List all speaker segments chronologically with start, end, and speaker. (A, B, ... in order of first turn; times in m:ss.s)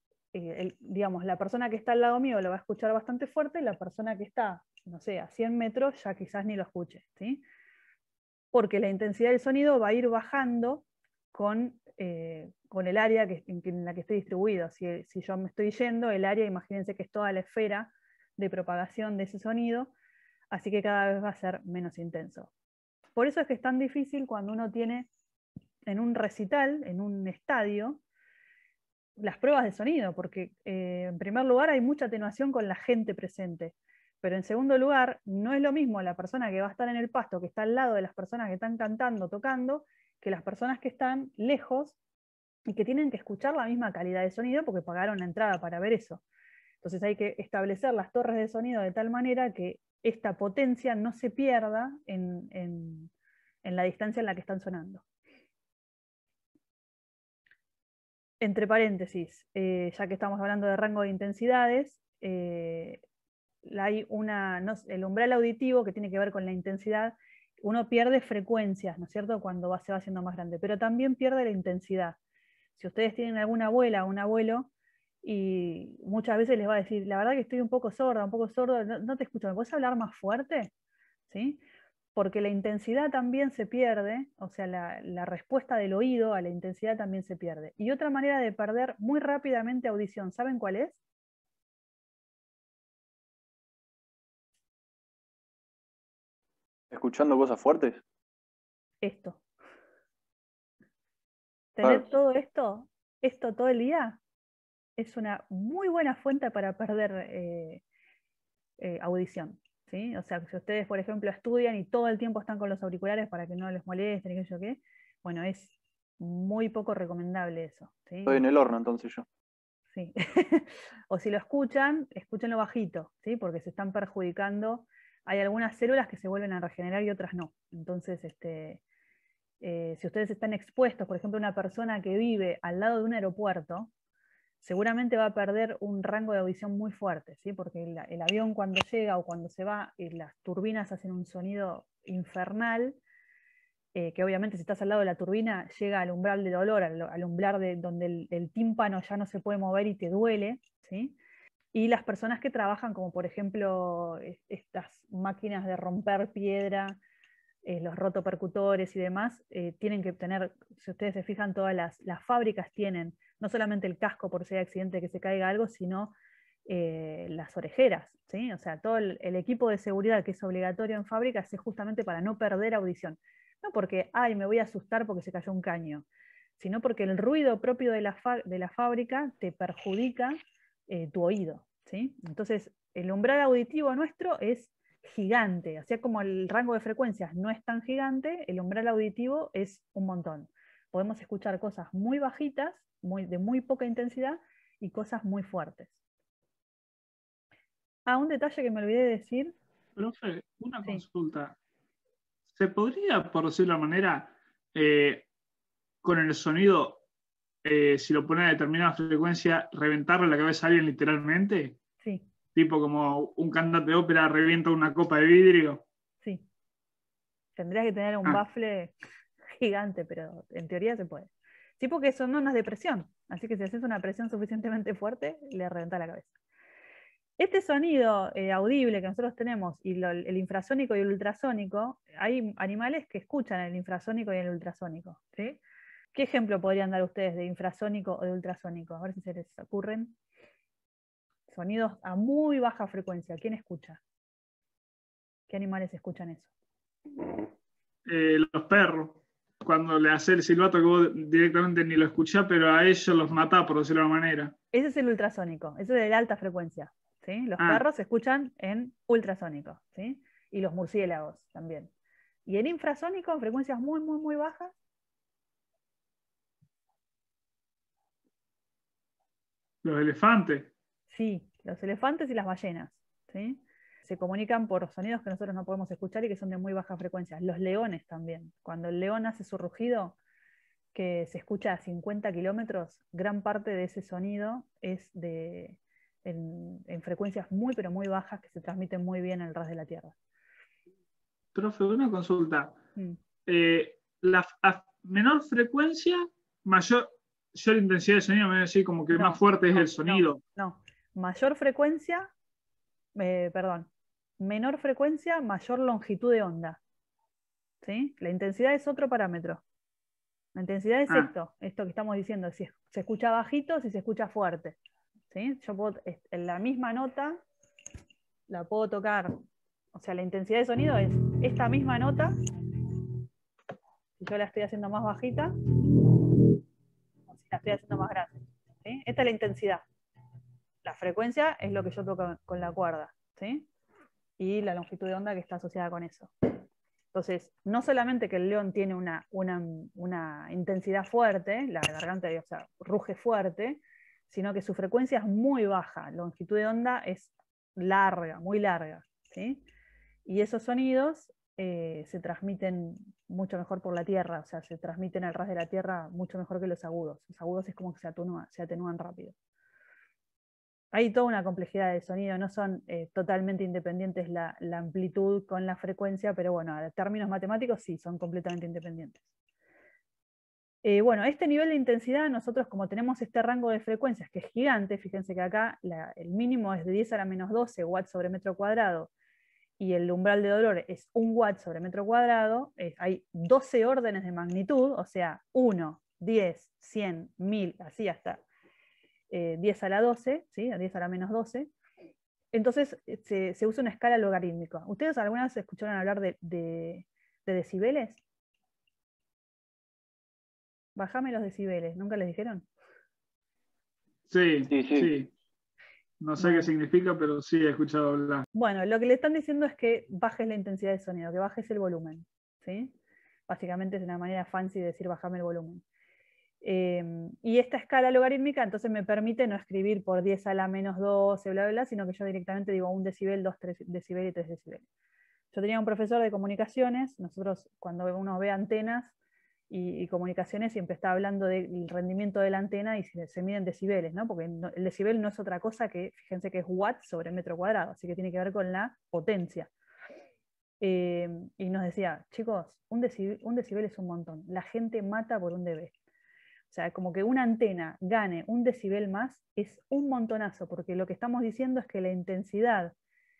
0:00.3-0:07.4 A
0:08.5-0:19.9 A
0:20.5-0:22.5 A
0:23.1-0:25.1 A
0:25.8-0:28.0 A
0:29.2-0:42.0 A
0:42.7-0:46.2 A
0:46.8-0:53.1 A
0:53.6-0:55.0 A
0:58.4-1:03.0 A
1:03.6-1:12.2 A
1:12.8-1:14.7 A
1:15.2-1:20.7 A
1:21.3-1:21.6 A
1:22.1-1:31.0 A
1:36.9-1:38.0 B
1:39.0-1:39.4 A
1:41.8-1:44.2 A
1:45.0-1:47.8 A
1:48.8-1:58.4 A
1:58.3-1:59.2 B
1:59.9-2:08.8 A
2:09.6-2:13.9 A
2:14.6-2:23.0 A
2:23.9-2:31.2 A
2:31.7-2:37.0 A
2:37.6-2:46.1 A
2:46.7-2:56.0 A
2:56.6-3:00.4 A
3:00.9-3:16.0 A
3:18.0-3:19.6 A
3:20.0-3:21.6 C
3:22.5-3:25.2 C
3:26.0-3:27.0 C
3:27.6-3:31.8 C
3:32.5-3:35.8 C
3:37.6-3:38.9 A
3:39.5-3:46.3 A
3:47.4-3:55.6 A
3:56.1-4:00.2 A
4:01.5-4:04.0 A
4:05.5-4:06.5 A
4:08.0-4:14.5 C
4:14.7-4:21.9 A
4:17.6-4:17.8 C
4:22.5-4:24.7 A
4:29.8-4:30.7 C
4:31.1-4:40.2 A
4:40.9-4:50.2 A
4:51.5-4:52.8 C
4:53.4-5:00.4 C
4:59.1-5:02.3 A
5:03.1-5:06.8 A
5:07.8-5:09.6 A
5:10.5-5:14.8 A
5:15.3-5:17.4 A
5:18.5-5:19.3 A
5:19.9-5:22.3 A
5:24.2-5:25.5 A
5:27.3-5:29.8 A
5:30.8-5:33.7 A
5:34.4-5:36.3 A
5:37.1-5:49.6 A
5:50.2-5:59.3 A
6:00.9-6:09.2 A
6:10.8-6:19.1 A
6:19.8-6:28.4 A
6:29.3-6:31.7 A
6:32.5-6:38.2 A
6:41.0-6:42.7 A
6:44.3-6:45.3 C
6:44.7-6:45.1 B
6:46.2-6:48.4 C
6:46.4-6:46.7 A
6:48.5-6:52.9 A
6:53.5-6:55.8 A
6:56.6-7:04.8 A
7:05.5-7:09.1 A
7:09.7-7:19.7 A
7:20.8-7:25.9 A
7:26.7-7:32.9 A